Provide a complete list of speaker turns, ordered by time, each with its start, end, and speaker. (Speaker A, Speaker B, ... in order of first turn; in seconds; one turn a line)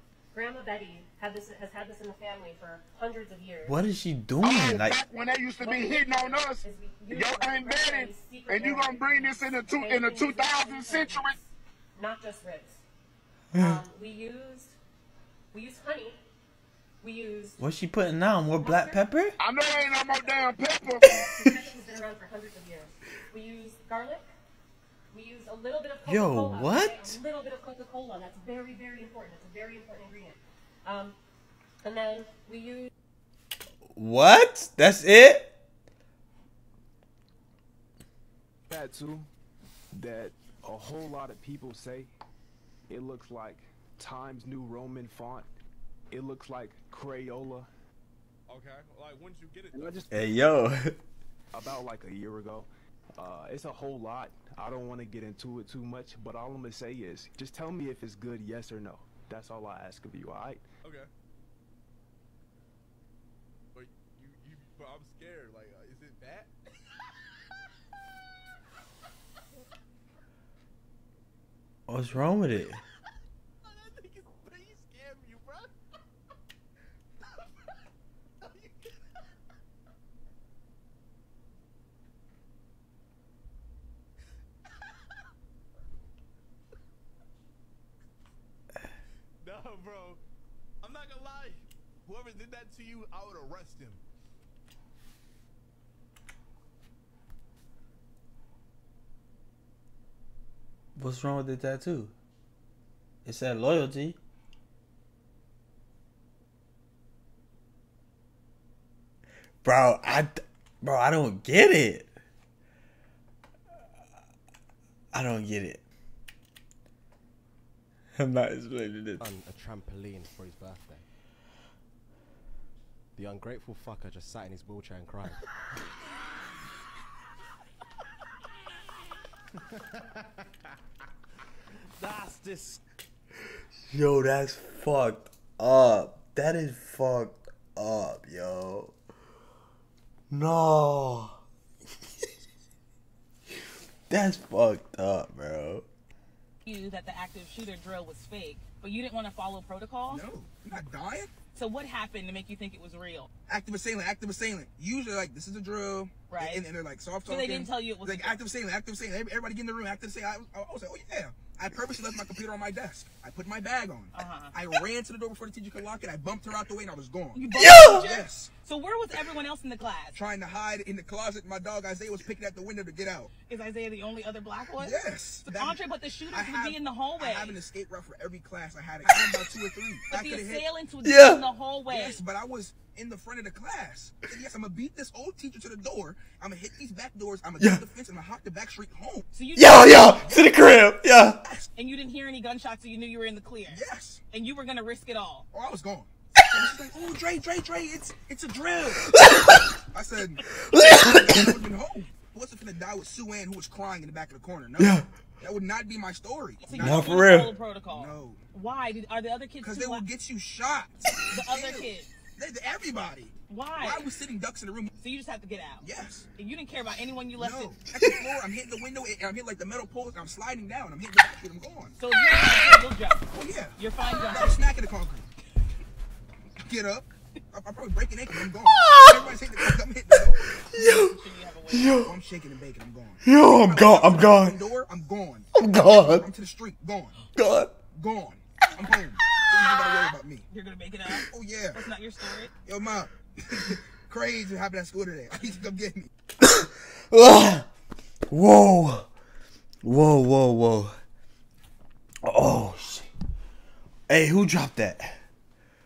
Speaker A: 0.3-3.8
Speaker B: 3.6-5.0
Speaker C: 4.4-11.4
Speaker A: 5.6-12.8
Speaker B: 13.5-13.8
Speaker A: 13.6-14.8
Speaker A: 15.5-16.2
Speaker A: 17.0-17.6
Speaker B: 17.6-19.4
Speaker A: 18.6-24.3
Speaker C: 19.4-21.3
Speaker B: 21.2-21.6
Speaker A: 25.1-31.2
Speaker B: 26.1-27.2
Speaker A: 31.8-32.9
Speaker B: 33.9-35.5
Speaker D: 38.7-39.3
Speaker D: 39.9-42.1
Speaker D: 42.9-45.5
Speaker D: 46.1-47.7
Speaker E: 48.5-50.1
Speaker D: 49.7-50.1
Speaker B: 50.1-51.0
Speaker D: 51.5-60.6
Speaker E: 60.8-61.1
Speaker E: 63.8-66.5
Speaker B: 71.9-72.8
Speaker E: 73.6-75.7
Speaker E: 78.4-78.9
Speaker E: 89.4-90.2
Speaker E: 90.8-94.0
Speaker B: 101.0-102.1
Speaker B: 103.2-104.2
Speaker B: 109.6-112.1
Speaker B: 115.1-115.8
Speaker B: 118.2-119.2
Speaker F: 119.2-121.1
Speaker F: 123.2-125.4
Speaker E: 132.0-132.8
Speaker B: 133.9-138.9
Speaker B: 140.3-141.4
Speaker B: 144.1-145.9
Speaker G: 146.6-150.2
Speaker H: 150.1-151.3
Speaker G: 151.6-153.3
Speaker H: 153.5-168.5
Speaker G: 156.3-156.6
Speaker G: 157.3-158.4
Speaker G: 164.1-164.5
Speaker G: 167.3-170.2
Speaker B: 167.6-168.0
Speaker H: 170.1-173.3
Speaker G: 173.5-177.6
Speaker H: 174.8-180.7
Speaker G: 180.1-182.2
Speaker B: 181.0-181.4
Speaker H: 181.9-189.3
Speaker G: 189.3-189.9
Speaker B: 189.6-191.4
Speaker H: 190.1-190.6
Speaker H: 191.4-191.7
Speaker G: 191.8-195.5
Speaker H: 193.7-194.2
Speaker H: 195.5-199.2
Speaker B: 199.2-199.7
Speaker H: 199.9-208.4
Speaker B: 200.7-201.6
Speaker B: 204.8-205.1
Speaker G: 206.6-210.1
Speaker B: 206.8-207.5
Speaker H: 209.6-214.9
Speaker G: 211.3-212.1
Speaker G: 213.5-214.0
Speaker G: 215.0-217.8
Speaker H: 215.8-216.3
Speaker H: 217.3-221.9
Speaker G: 222.0-223.2
Speaker H: 223.3-225.3
Speaker G: 223.8-224.6
Speaker H: 226.6-230.6
Speaker B: 228.7-229.7
Speaker B: 230.7-231.2
Speaker G: 230.7-232.1
Speaker B: 231.7-232.1
Speaker H: 231.8-237.2
Speaker B: 233.2-234.6
Speaker B: 235.6-236.3
Speaker B: 237.3-237.7
Speaker H: 237.9-240.5
Speaker G: 240.5-242.5
Speaker H: 241.1-241.8
Speaker H: 242.6-246.1
Speaker B: 246.4-247.7
Speaker B: 248.3-249.1
Speaker B: 249.8-251.0
Speaker B: 252.2-253.1
Speaker B: 254.1-255.2